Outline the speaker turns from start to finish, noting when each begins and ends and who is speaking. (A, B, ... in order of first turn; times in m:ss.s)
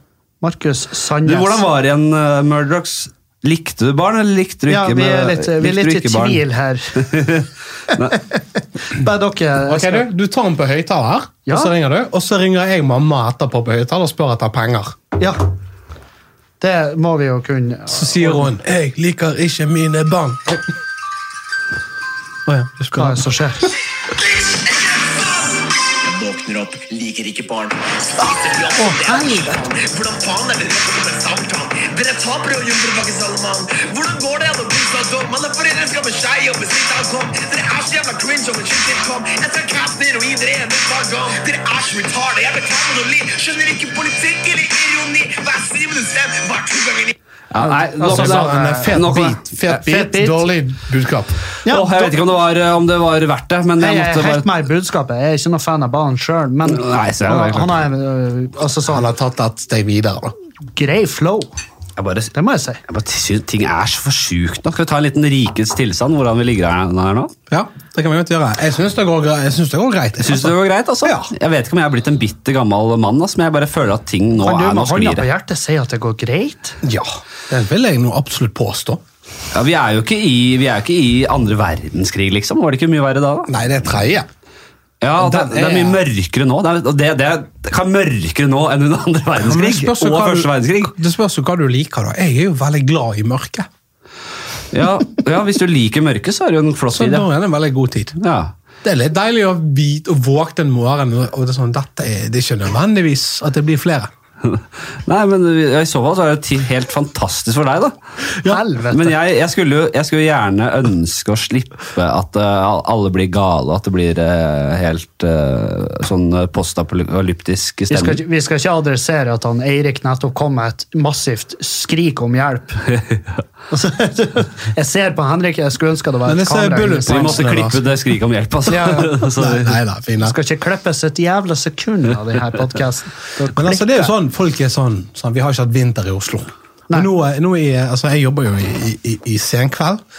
0:00.4-0:01.6 A
0:01.2-0:06.4 B
0:04.7-0:07.3 A
0:07.0-0:08.2 B
0:07.9-0:10.1 A
0:09.6-0:15.0 C
0:11.5-0:11.7 A
0:16.6-0:18.5 A
0:17.9-0:20.7 C
0:22.4-0:23.2 C
0:22.9-0:23.7 A
0:24.1-0:47.1 D
0:28.8-0:29.5 A
0:47.5-0:49.5 B
0:47.6-0:50.5 A
0:48.0-0:51.4 C
0:51.6-0:52.2 A
0:51.7-0:54.5 B
0:53.8-0:59.0 A
0:56.6-0:57.8 B
0:58.9-1:00.3 C
1:00.7-1:01.5 A
1:02.0-1:02.3 B
1:02.3-1:02.8 A
1:02.8-1:07.3 B
1:07.5-1:11.3 C
1:10.2-1:15.2 B
1:14.4-1:16.8 A
1:16.8-1:19.0 C
1:19.5-1:23.5 B
1:23.5-1:24.3 C
1:25.0-1:30.9 B
1:25.2-1:26.0 C
1:29.4-1:33.7 C
1:34.7-1:37.2 B
1:36.9-1:38.2 C
1:38.2-1:38.5 B
1:38.8-1:44.1 C
1:44.4-1:47.9 B
1:48.4-1:49.2 A
1:48.9-1:58.2 B
1:57.9-2:02.8 A
2:03.7-2:07.4 A
2:06.2-2:07.8 C
2:07.1-2:09.8 B
2:08.7-2:09.2 A
2:09.2-2:10.4 C
2:10.2-2:14.1 A
2:13.5-2:20.0 C